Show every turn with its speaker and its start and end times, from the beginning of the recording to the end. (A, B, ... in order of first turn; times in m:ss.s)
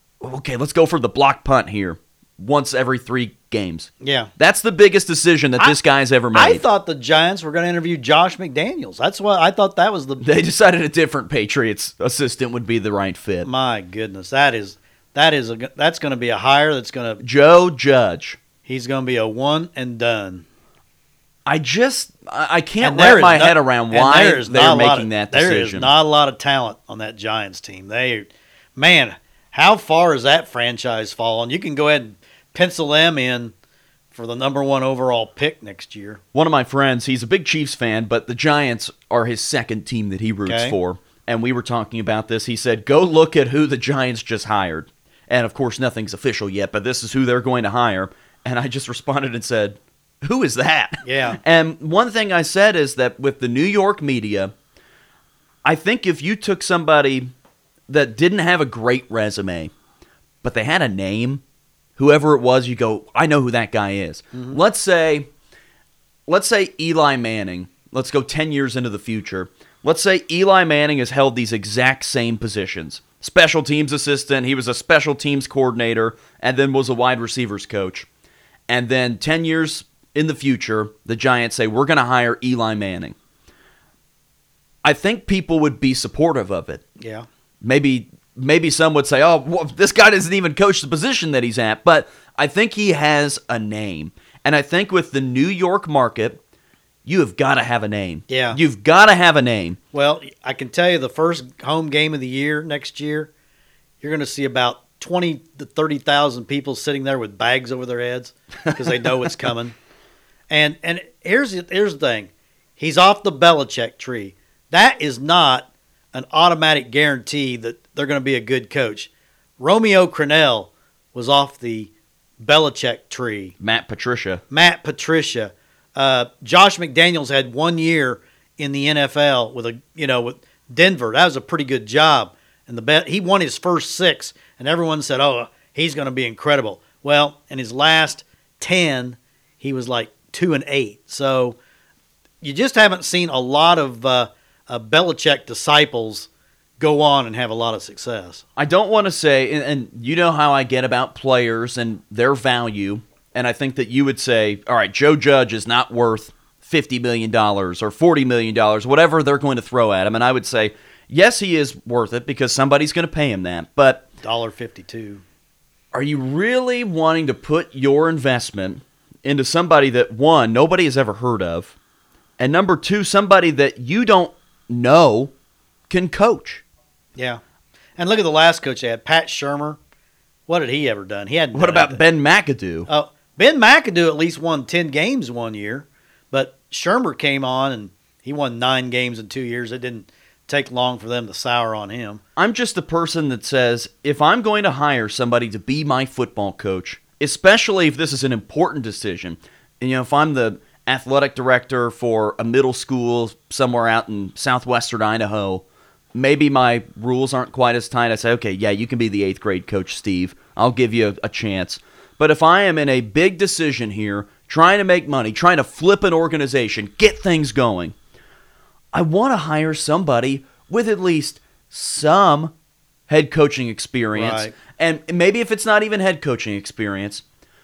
0:00.2-0:06.6 A
0:04.0-0:04.3 B
0:06.3-0:10.2 B
0:10.2-0:13.5 A
0:13.4-0:17.2 B
0:17.2-0:18.4 A
0:18.7-0:20.4 B
0:21.5-0:25.9 A
0:22.8-0:33.5 B
0:34.1-0:36.2 B
0:36.3-0:54.5 A
0:40.5-0:40.8 B
0:51.0-0:51.4 B
0:55.6-0:57.3 A
0:57.9-0:59.7 A
1:00.4-1:01.4 A
1:02.0-1:05.3 A
1:04.3-1:04.6 B
1:06.3-1:18.1 A
1:18.7-1:23.2 A
1:24.8-1:26.8 A
1:27.0-1:27.3 B
1:27.6-1:36.4 A
1:37.0-1:39.8 A
1:38.3-1:38.6 B
1:39.9-1:43.3 B
1:44.0-1:49.8 B
1:50.5-2:03.5 B
2:03.6-2:04.4 A
2:04.5-2:21.6 B
2:22.4-2:26.3 B
2:26.8-2:28.4 B
2:28.6-2:44.1 A
2:44.2-2:45.2 B
2:45.9-2:51.8 A
2:52.4-2:55.3 A
2:55.9-2:56.6 A
2:57.2-2:57.4 B
2:58.0-2:59.8 B
3:00.5-3:02.0 B
3:01.5-3:02.9 A
3:02.9-3:12.2 B
3:12.4-3:38.0 A
3:38.9-3:42.5 A
3:43.1-3:47.2 A
3:44.2-3:44.6 B